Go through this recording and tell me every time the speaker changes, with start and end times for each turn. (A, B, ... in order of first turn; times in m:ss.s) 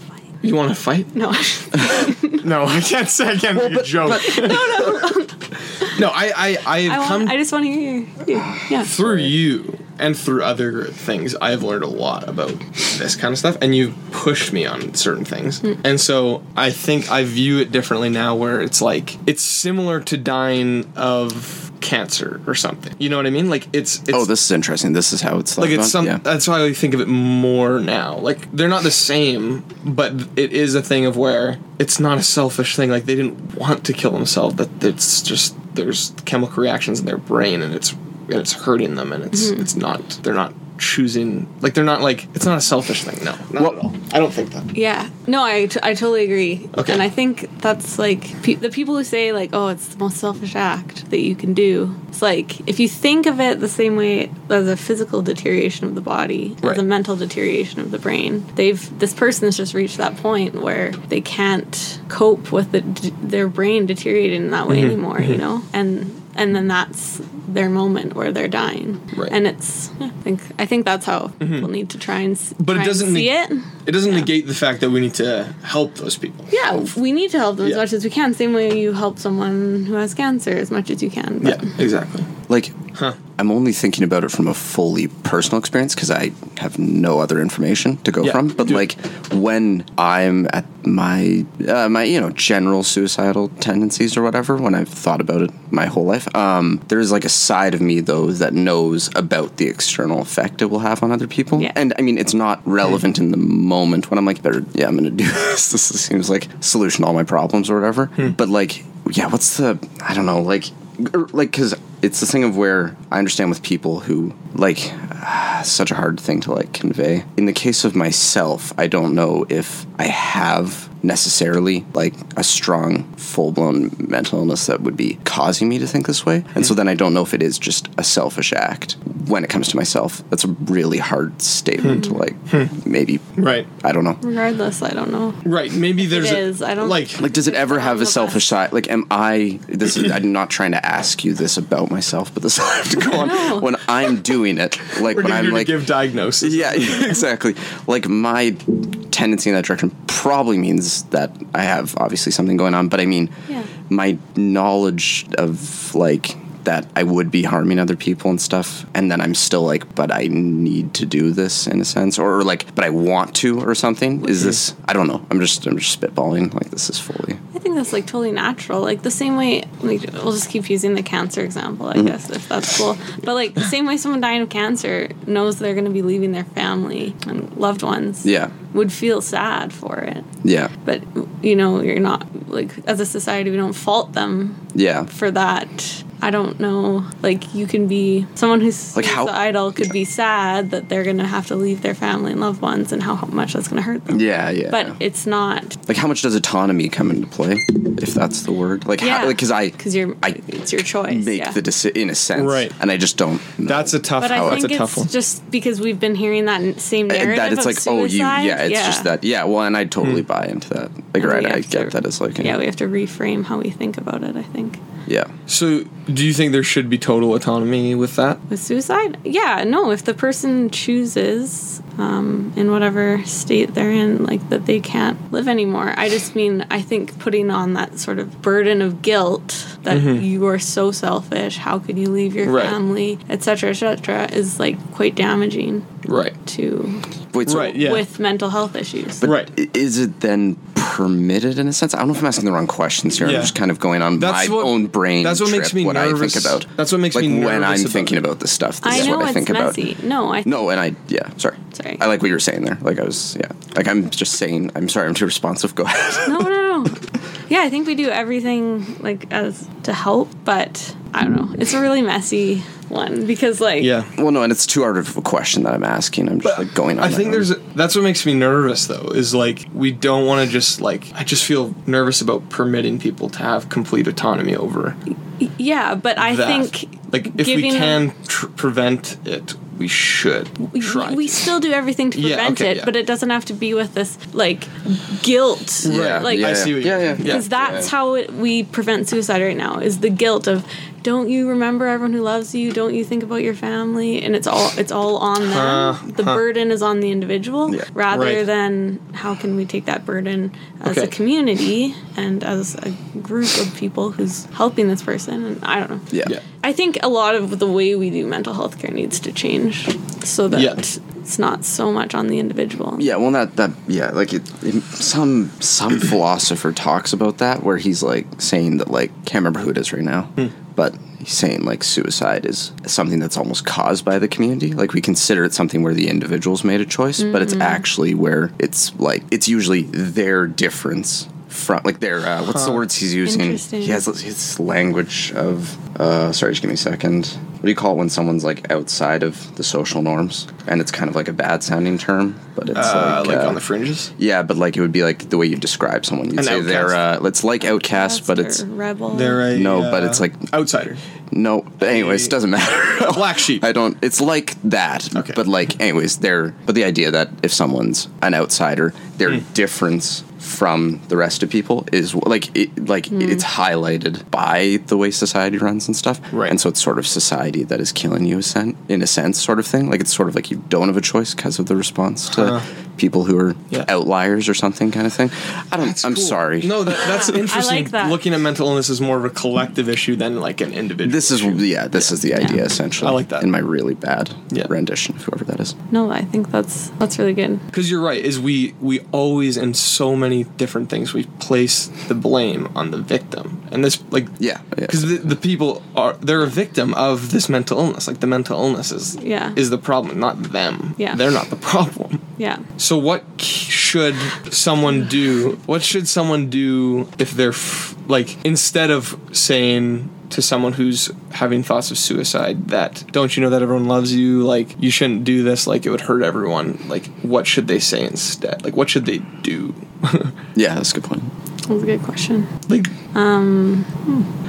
0:00.4-0:01.2 A
0:01.1-0:02.4 B
0:02.2-0:05.0 A
0:04.0-0:06.0 B
0:05.9-0:07.4 A
0:06.8-0:08.9 B
0:08.8-0:24.3 A
0:09.0-0:09.3 C
0:24.1-0:26.2 C
0:25.6-0:44.7 A
0:39.4-0:39.6 B
0:44.7-1:14.3 B
0:46.7-0:47.0 A
1:04.7-1:05.4 A
1:11.4-1:11.7 A
1:12.6-1:16.9 A
1:16.5-1:21.8 B
1:21.4-1:22.3 A
1:22.5-1:22.8 C
1:23.4-2:14.2 C
1:28.2-1:28.8 A
2:11.8-2:12.7 A
2:11.9-2:12.2 B
2:13.4-2:13.7 A
2:14.2-2:15.4 B
2:15.4-2:17.2 A
2:16.0-2:18.4 B
2:17.2-2:25.8 C
2:23.1-2:23.7 B
2:25.1-2:27.2 A
2:26.4-2:33.3 C
2:33.8-2:47.4 C
2:47.5-3:00.3 B
2:58.2-2:58.5 C
3:00.4-3:00.7 C
3:00.8-3:15.8 B
3:04.7-3:05.1 C
3:08.9-3:09.9 C
3:14.1-3:15.0 C
3:15.9-3:20.4 C
3:19.0-3:21.6 B
3:21.1-3:24.7 C
3:22.4-3:22.7 A
3:23.6-3:25.1 A
3:24.2-3:29.1 B
3:27.1-3:32.6 C
3:31.2-3:34.8 B
3:35.0-3:35.3 C
3:35.5-3:38.4 A
3:38.5-3:57.0 B
3:49.9-3:50.2 A
3:52.4-3:52.8 A
3:56.0-3:56.3 A
3:57.3-3:57.8 C
3:57.5-3:58.0 A
3:57.6-3:59.3 B
3:59.2-4:09.8 C
3:59.2-3:59.5 A
4:03.2-4:03.5 A
4:04.2-4:08.2 A
4:08.8-4:10.6 B
4:10.4-4:16.5 C
4:11.7-4:12.0 B
4:16.2-4:23.9 B
4:23.8-4:24.1 A
4:24.2-4:27.5 C
4:26.4-4:35.0 A
4:35.4-4:38.0 B
4:36.2-4:41.4 A
4:40.7-5:13.1 B
4:42.1-4:42.9 A
4:45.8-4:47.5 A
4:45.8-4:47.9 C
4:55.4-4:56.4 A
4:58.1-4:58.4 A
5:00.8-5:01.1 A
5:10.5-5:10.8 A
5:13.0-5:43.6 C
5:27.2-5:27.8 B
5:32.4-5:32.8 A
5:33.2-5:34.0 B
5:42.7-5:44.1 A
5:44.2-5:48.6 C
5:46.3-5:47.0 A
5:47.6-5:49.5 B
5:49.1-5:51.0 A
5:49.5-5:50.5 C
5:51.3-6:17.0 C
5:51.8-5:53.7 A
5:55.1-5:55.4 A
6:03.1-6:03.4 B
6:06.3-6:06.6 A
6:12.3-6:12.6 A
6:15.8-6:22.1 A
6:17.0-6:18.2 B
6:21.0-6:25.7 C
6:23.0-6:23.5 A
6:25.9-6:27.6 B
6:27.7-6:34.3 A
6:34.4-6:35.3 C
6:34.9-6:42.2 A
6:39.2-6:39.6 B
6:42.4-6:42.6 B
6:42.8-7:00.3 A
7:00.5-7:01.3 C
7:01.7-7:02.5 B
7:02.7-7:02.9 A
7:03.1-7:04.3 B